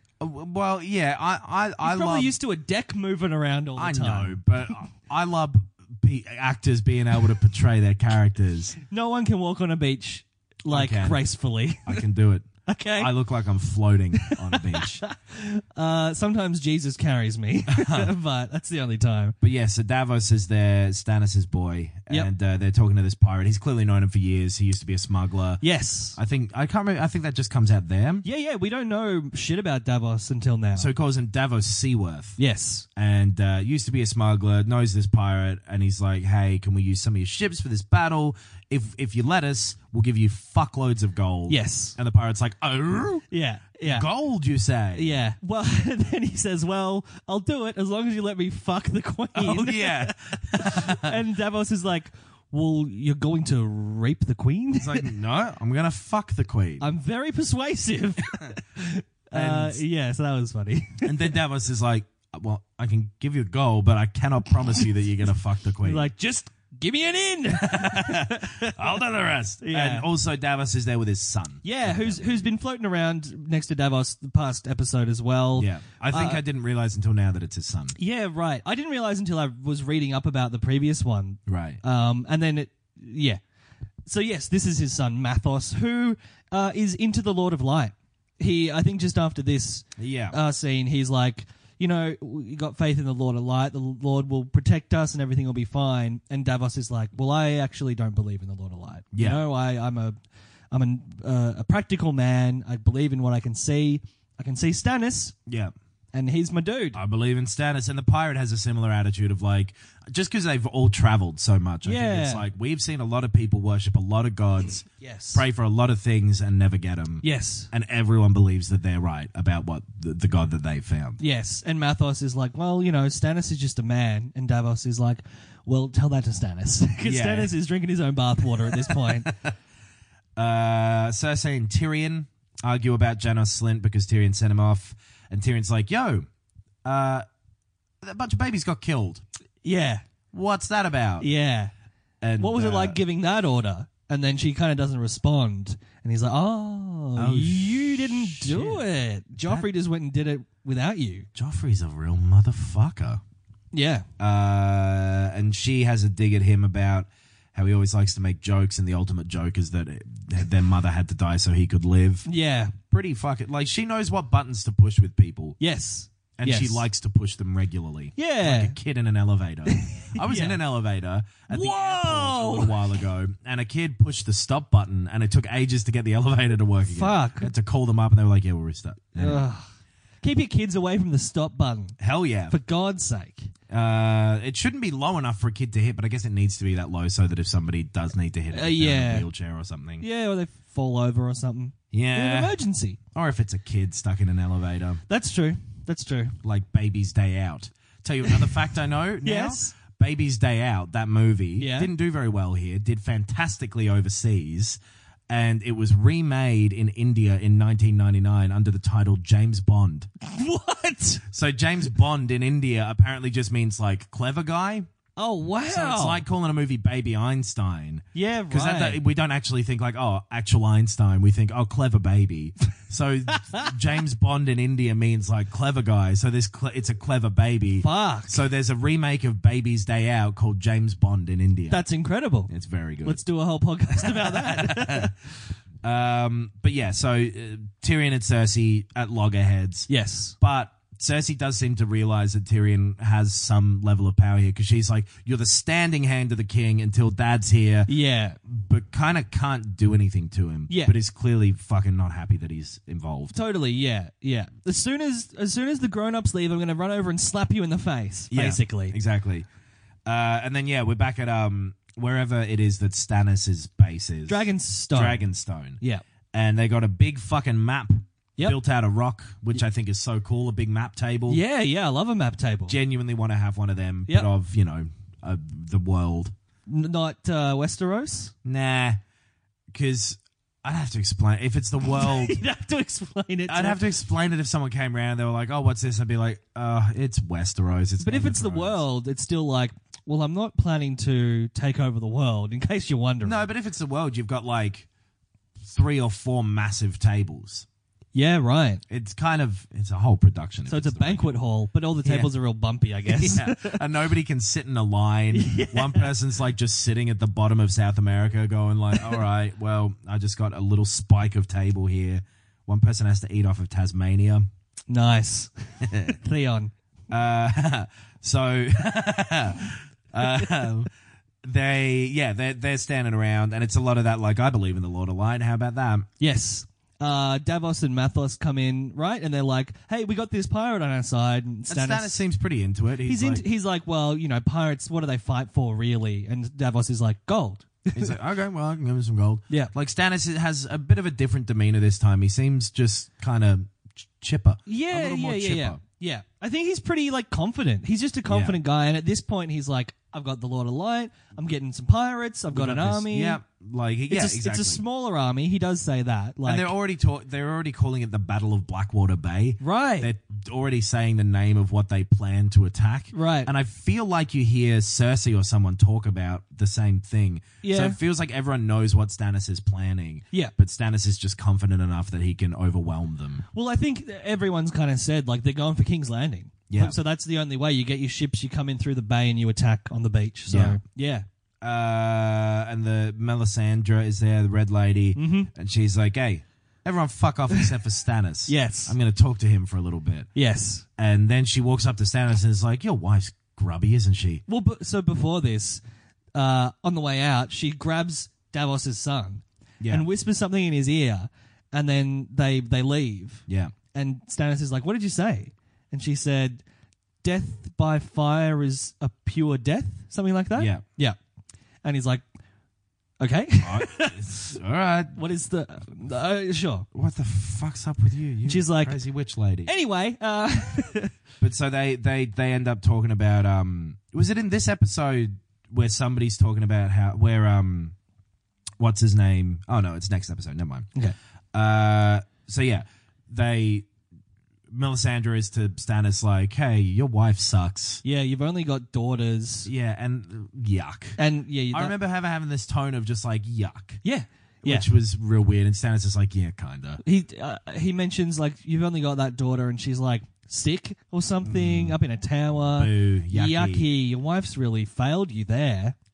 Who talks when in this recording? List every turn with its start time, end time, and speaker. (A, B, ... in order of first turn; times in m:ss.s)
0:00.2-0:02.3 A
0:01.8-0:04.4 B
0:03.8-0:08.8 A
0:08.9-0:12.0 B
0:10.7-0:11.2 A
0:11.8-0:15.0 A
0:12.6-0:13.1 B
0:14.2-0:19.4 B
0:17.7-0:18.1 A
0:19.4-0:25.6 A
0:25.6-0:26.2 B
0:26.1-0:28.2 A
0:28.2-0:30.9 B
0:30.7-0:32.4 A
0:32.4-0:32.8 B
0:33.0-0:43.3 A
0:41.5-0:42.0 B
0:43.3-0:44.1 B
0:43.8-0:45.1 A
0:44.9-0:55.1 B
0:49.3-0:51.2 A
0:54.8-0:56.8 A
0:56.8-1:01.3 B
0:59.3-0:59.8 A
1:01.0-1:06.1 A
1:05.8-1:08.8 B
1:07.6-1:12.5 A
1:09.6-1:10.1 B
1:11.6-1:16.4 B
1:15.6-1:18.0 A
1:18.0-1:23.4 B
1:21.5-1:21.8 A
1:24.0-1:40.2 B
1:30.0-1:30.4 A
1:39.1-1:39.4 A
1:40.7-1:45.3 B
1:45.5-1:45.7 A
1:46.1-1:47.0 B
1:46.9-2:01.2 A
1:51.8-1:52.4 B
1:55.0-1:55.4 B
1:57.2-1:57.7 B
2:01.2-2:09.3 B
2:07.0-2:07.5 A
2:08.6-2:09.5 A
2:10.4-2:16.3 A
2:16.8-2:17.2 A
2:18.0-2:19.2 A
2:19.6-2:20.0 B
2:20.3-2:21.3 A
2:21.2-2:21.7 B
2:22.2-2:23.0 A
2:22.4-2:31.3 B
2:27.2-2:28.8 A
2:29.4-2:29.7 A
2:31.3-2:33.2 A
2:33.7-2:34.0 B
2:34.2-2:42.2 A
2:42.2-2:42.8 B
2:42.9-2:45.6 A
2:45.6-2:46.8 B
2:46.4-2:59.5 A
2:48.2-2:48.7 B
2:49.7-2:50.6 B
2:51.5-2:52.8 B
2:56.8-2:57.5 B
2:59.2-2:59.7 B
3:00.2-3:02.0 B
3:02.0-3:02.6 A
3:02.5-3:03.5 B
3:03.7-3:10.0 A
3:08.5-3:09.3 B
3:10.0-3:13.0 B
3:11.9-3:12.6 A
3:13.1-3:15.0 A
3:15.1-3:16.4 B
3:16.4-3:30.1 A
3:19.2-3:19.7 B
3:21.6-3:21.9 B
3:30.2-3:31.2 B
3:31.2-3:34.9 A
3:35.2-3:36.2 B
3:35.7-3:51.8 A
3:38.1-3:39.0 B
3:47.8-3:48.4 B
3:51.7-3:52.5 B
3:52.5-3:53.2 A
3:53.0-3:55.1 B
3:54.0-3:55.1 A
3:55.8-3:59.9 A
3:59.9-4:00.3 B
4:00.4-4:07.9 A
4:07.9-4:08.4 B
4:08.5-4:13.4 A
4:10.7-4:10.9 B
4:13.3-4:19.0 B
4:18.3-4:19.4 A
4:20.0-4:25.8 A
4:24.3-4:25.2 B
4:26.3-4:31.4 A
4:31.3-4:32.8 B
4:32.7-4:36.3 A
4:36.7-4:38.3 B
4:38.4-4:39.0 A
4:39.7-4:42.4 A
4:41.8-4:43.8 B
4:43.5-4:48.8 A
4:48.0-4:53.4 B
4:53.2-4:54.9 A
4:55.6-4:57.6 A
4:58.1-4:58.8 B
4:58.9-5:01.3 A
5:00.7-5:03.8 B
5:02.0-5:02.3 A
5:03.1-5:14.5 A
5:05.3-5:06.1 B
5:14.9-5:16.7 B
5:15.8-5:16.1 A
5:17.1-5:20.9 A
5:21.4-5:26.1 A
5:26.2-5:32.2 B
5:31.7-5:33.4 A
5:33.0-5:38.1 B
5:37.9-5:45.8 A
5:44.7-5:53.4 B
5:48.3-5:48.6 A
5:52.5-5:54.8 A
5:54.1-5:56.7 B
5:56.4-6:13.4 A
5:59.6-6:00.1 B
6:03.1-6:03.5 B
6:07.6-6:08.0 B
6:13.5-6:21.2 B
6:16.7-6:17.0 A
6:20.5-6:20.8 A
6:21.6-6:30.3 A
6:25.2-6:25.5 B
6:28.5-6:28.9 B
6:30.3-6:30.8 B
6:31.0-6:34.4 A
6:34.5-6:35.8 B
6:36.3-6:46.6 B
6:39.8-6:40.0 A
6:43.5-6:43.7 A
6:47.2-6:51.2 B
6:50.6-6:50.8 A
6:51.8-6:52.2 B
6:53.2-6:54.5 B
6:53.6-6:55.2 A
6:55.1-6:56.9 B
6:56.9-6:59.7 A
6:58.4-6:59.0 B
6:59.6-7:01.1 B
7:01.4-7:07.9 A
7:08.8-7:10.9 A
7:11.5-7:13.9 A
7:14.7-7:18.0 A
7:18.0-7:19.7 B
7:19.6-7:21.2 A
7:21.2-7:21.9 B
7:21.7-7:24.0 A
7:24.0-7:24.9 B
7:24.6-7:27.0 A
7:27.0-7:35.9 B
7:31.4-7:32.0 A
7:32.7-7:33.8 A